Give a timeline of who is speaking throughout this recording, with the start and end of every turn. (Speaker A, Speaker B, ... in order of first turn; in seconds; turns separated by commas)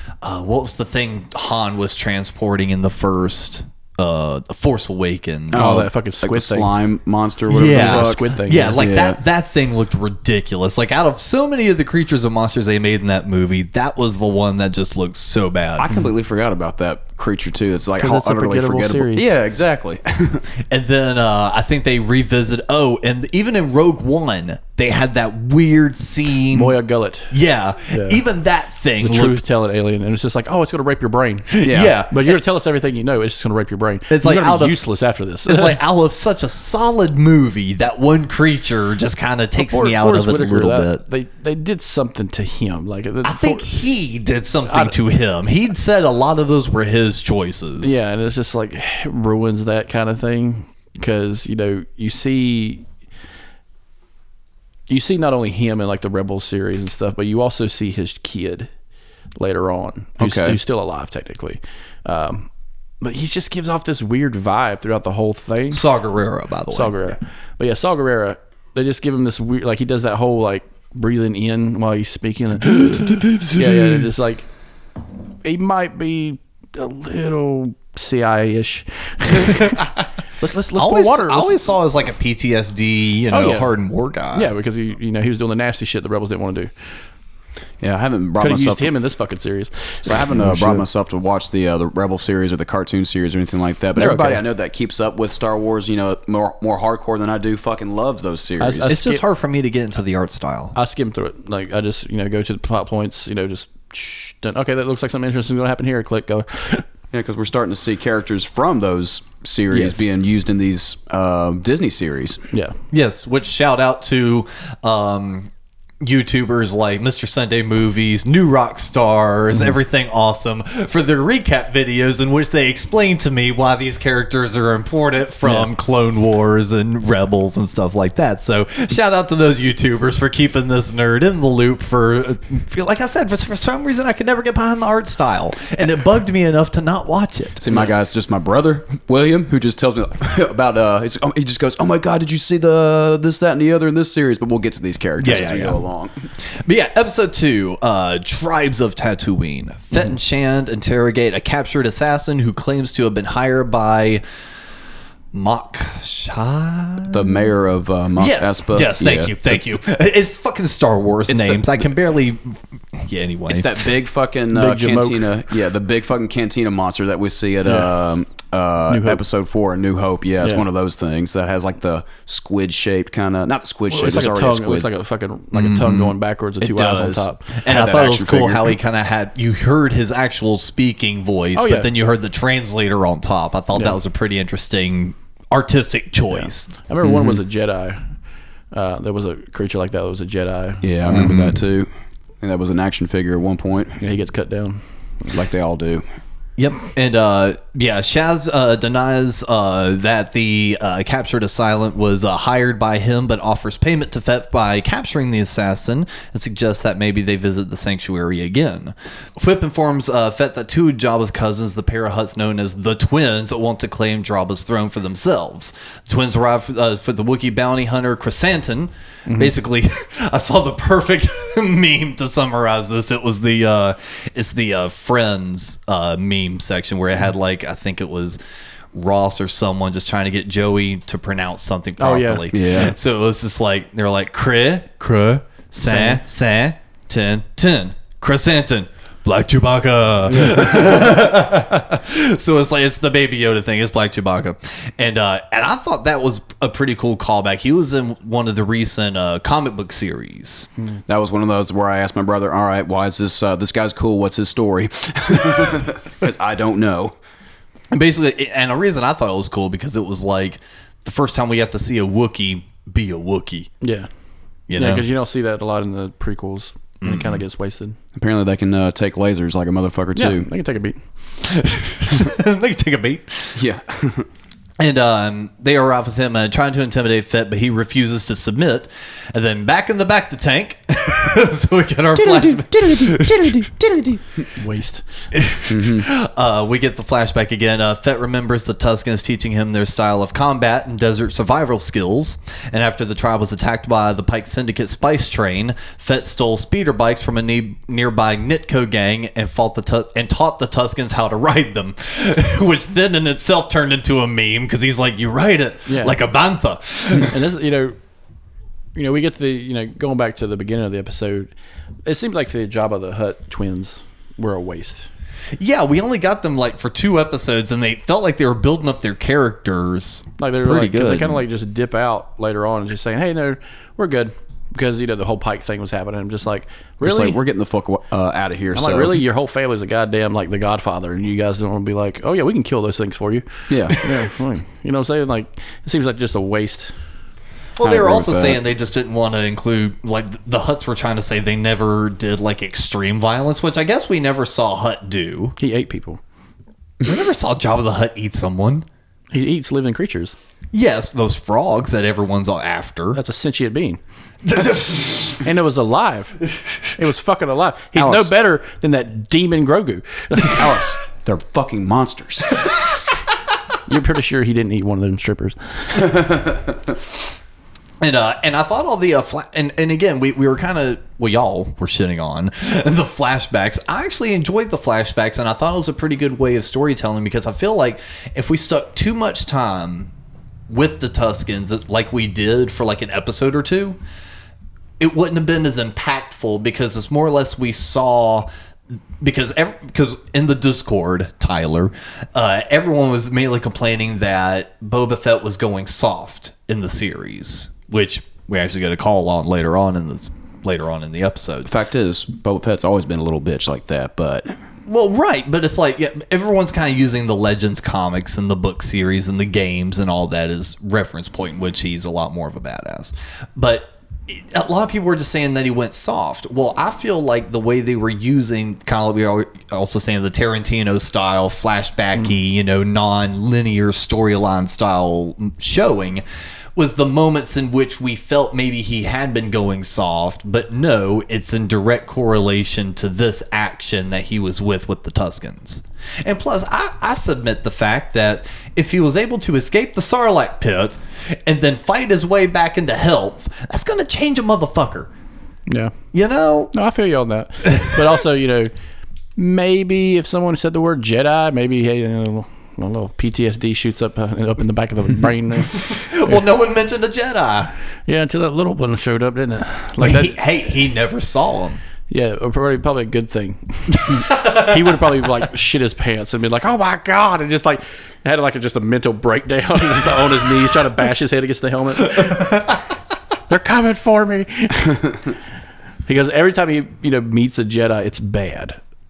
Speaker A: 0.2-5.9, Speaker B: 5.5-9.2, Speaker C: 5.5-6.7, Speaker A: 7.5-15.9, Speaker C: 7.6-8.8, Speaker B: 15.8-20.5, Speaker C: 18.0-19.3, Speaker A: 20.6-26.8, Speaker C: 26.5-27.3, Speaker A: 27.3-29.4, Speaker C: 27.9-28.2, Speaker C: 29.0-35.8, Speaker A: 31.5-32.4, Speaker B: 31.6-31.9, Speaker A: 34.1-34.8, Speaker A: 35.4-41.0, Speaker C: 39.6-43.9, Speaker A: 43.2-48.0, Speaker C: 44.6-45.0, Speaker C: 47.8-52.9, Speaker C: 54.9-58.7, Speaker C: 59.4-62.5, Speaker B: 60.2-60.6, Speaker C: 63.0-65.8, Speaker A: 65.7-67.2, Speaker C: 66.7-74.5, Speaker A: 72.8-74.0, Speaker C: 75.4-79.8, Speaker C: 80.4-81.6, Speaker A: 80.7-84.5, Speaker C: 83.3-83.7, Speaker C: 84.3-86.7, Speaker B: 87.8-88.9, Speaker C: 88.4-90.8, Speaker B: 90.0-99.0, Speaker C: 94.0-94.4, Speaker C: 98.6-99.2, Speaker A: 98.9-100.7, Speaker C: 100.7-106.8, Speaker B: 107.1-112.4, Speaker C: 109.7-110.0, Speaker A: 112.9-115.5, Speaker A: 116.0-137.8, Speaker B: 137.6-146.3, Speaker A: 145.2-145.8, Speaker A: 146.6-154.2, Speaker A: 155.3-157.5, Speaker B: 157.1-159.6, Speaker A: 158.2-163.9, Speaker B: 161.3-161.8, Speaker B: 163.5-174.9, Speaker C: 164.5-165.2, Speaker C: 167.6-167.9, Speaker C: 168.9-169.2, Speaker C: 173.9-177.5, Speaker A: 175.5-176.1, Speaker B: 176.6-178.7, Speaker A: 177.6-186.7, Speaker C: 181.5-181.9, Speaker C: 186.3-188.0, Speaker B: 187.0-187.4, Speaker C: 188.7-191.3, Speaker B: 190.8-191.9, Speaker A: 191.1-191.6, Speaker B: 192.4-194.0, Speaker C: 194.0-195.3, Speaker B: 195.3-196.0, Speaker A: 196.6-228.4, Speaker C: 219.3-219.5, Speaker A: 228.9-250.7, Speaker C: 232.0-232.5, Speaker B: 232.5-232.9, Speaker C: 235.8-236.2, Speaker B: 240.3-240.7, Speaker B: 251.1-257.1, Speaker A: 257.9-263.7, Speaker C: 263.8-264.1, Speaker A: 264.7-265.0, Speaker C: 264.7-268.0, Speaker A: 267.0-267.4, Speaker B: 268.1-270.5, Speaker C: 270.1-271.0, Speaker A: 271.4-273.6, Speaker B: 273.6-274.3, Speaker A: 274.8-284.2, Speaker C: 283.0-283.5, Speaker C: 284.5-285.0, Speaker A: 285.3-307.3, Speaker B: 285.7-286.1, Speaker C: 305.9-306.2, Speaker C: 307.2-308.0, Speaker C: 308.9-311.5, Speaker C: 312.1-315.1, Speaker A: 315.6-321.4, Speaker C: 320.4-327.4, Speaker B: 327.0-329.2, Speaker C: 328.7-336.9, Speaker B: 333.7-334.0, Speaker A: 337.8-345.5, Speaker B: 337.8-338.6, Speaker C: 345.6-346.2, Speaker A: 347.0-348.8, Speaker C: 349.3-350.3, Speaker A: 350.7-353.2, Speaker C: 353.1-354.0, Speaker A: 354.4-355.4, Speaker C: 355.4-356.4, Speaker C: 356.9-360.9, Speaker B: 357.9-358.3, Speaker B: 360.5-362.7, Speaker C: 363.9-366.2, Speaker B: 366.1-366.6, Speaker A: 368.0-380.1, Speaker A: 380.7-384.0, Speaker A: 385.0-388.5, Speaker A: 389.2-401.7, Speaker B: 401.7-404.6, Speaker A: 404.9-426.2, Speaker A: 426.7-445.1, Speaker C: 445.7-445.9, Speaker A: 446.1-446.7, Speaker C: 446.7-448.7, Speaker A: 447.6-448.1, Speaker C: 449.4-456.3, Speaker A: 455.7-457.7, Speaker C: 458.1-460.4, Speaker A: 460.0-461.8, Speaker C: 462.1-472.6, Speaker A: 464.1-464.8, Speaker A: 472.2-472.8, Speaker C: 473.5-475.0, Speaker C: 476.1-478.8